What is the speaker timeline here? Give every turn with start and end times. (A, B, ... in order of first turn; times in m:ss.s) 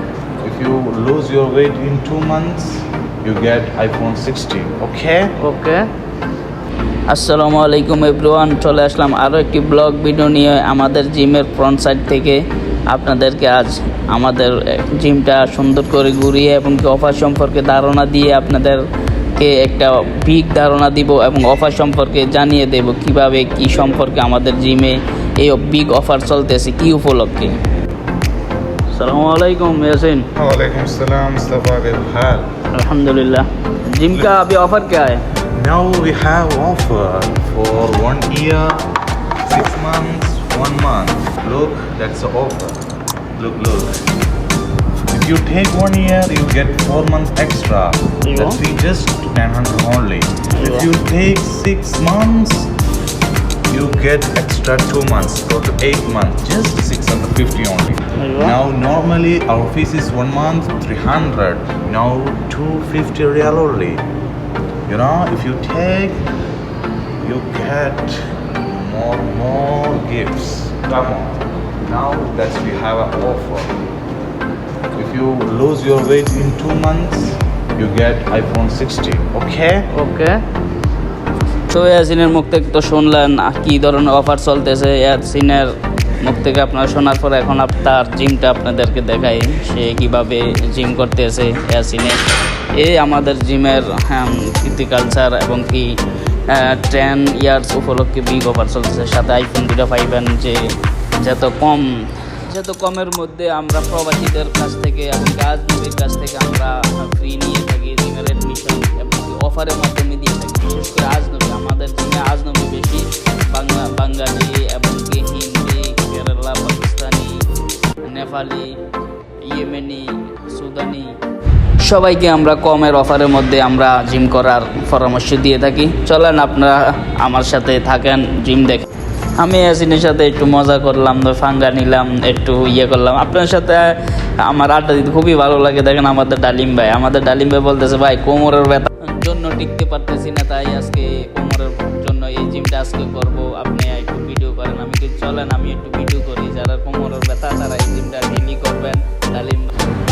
0:00.4-0:05.4 A
0:05.4-0:05.9 B
0:07.1-0:18.8 B
0:19.4-0:27.6 B
0:28.9-0:30.3 B
0:30.3-0:32.5 A
0:32.7-0:35.2 B
0:35.5-0:38.8 A
0:39.4-0:42.8 A
0:43.4-0:44.0 A
0:45.1-0:52.7 A
0:48.2-0:48.6 B
0:50.5-0:50.9 B
0:53.7-1:04.0 A
0:58.2-0:58.6 B
1:04.9-1:06.2 A
1:07.2-1:13.7 A
1:14.9-1:19.9 A
1:19.9-1:20.4 B
1:21.7-1:32.2 B
1:32.7-1:57.5 B
1:58.0-1:58.8 B
1:59.4-2:01.2 B
2:01.8-2:08.9 B
2:09.4-2:29.7 B